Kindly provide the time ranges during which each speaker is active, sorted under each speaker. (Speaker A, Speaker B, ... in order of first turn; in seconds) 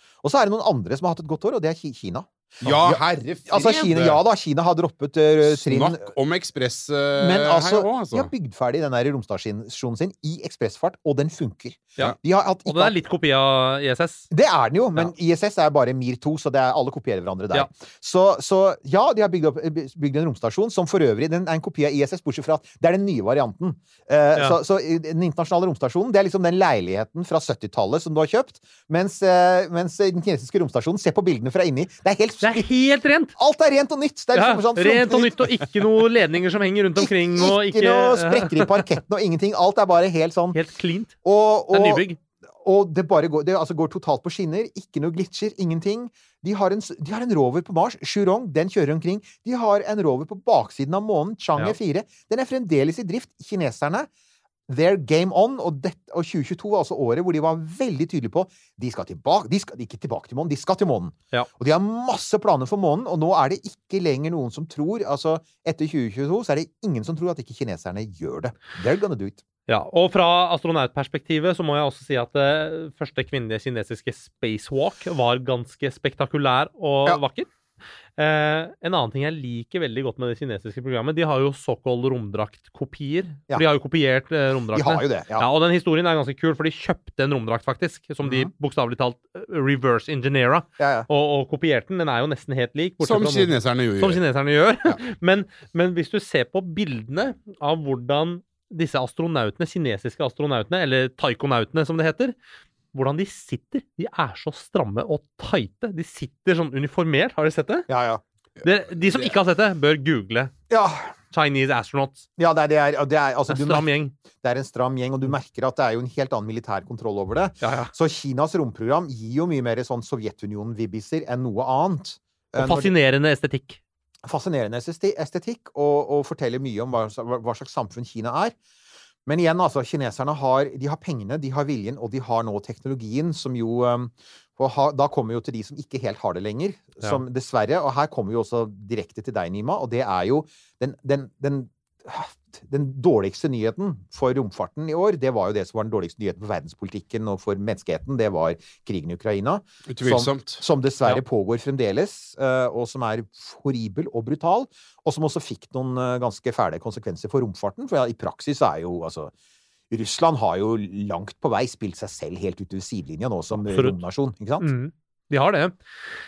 Speaker A: 0.2-6.0, 7.2-12.9, 14.3-32.7, 33.4-35.5, 37.0-40.6, 41.2-42.0, 42.6-54.1, 54.7-69.4, 84.7-85.5, 88.2-88.5, 90.8-91.1, 107.9-108.2, 110.7-111.1, 112.4-122.9, 124.2-128.6, 129.2-159.3, 159.9-164.7
Speaker B: 2.6-4.2, 5.4-8.3, 93.0-94.2, 149.9-151.2
Speaker C: 12.7-14.3, 32.4-33.3, 34.3-38.9, 40.5-41.1, 41.7-42.2, 69.7-77.5, 78.2-102.3, 102.9-107.9, 108.6-110.5, 111.3-112.2, 113.5-114.1, 117.6-117.9, 122.6-123.8, 163.5-164.0, 164.6-165.8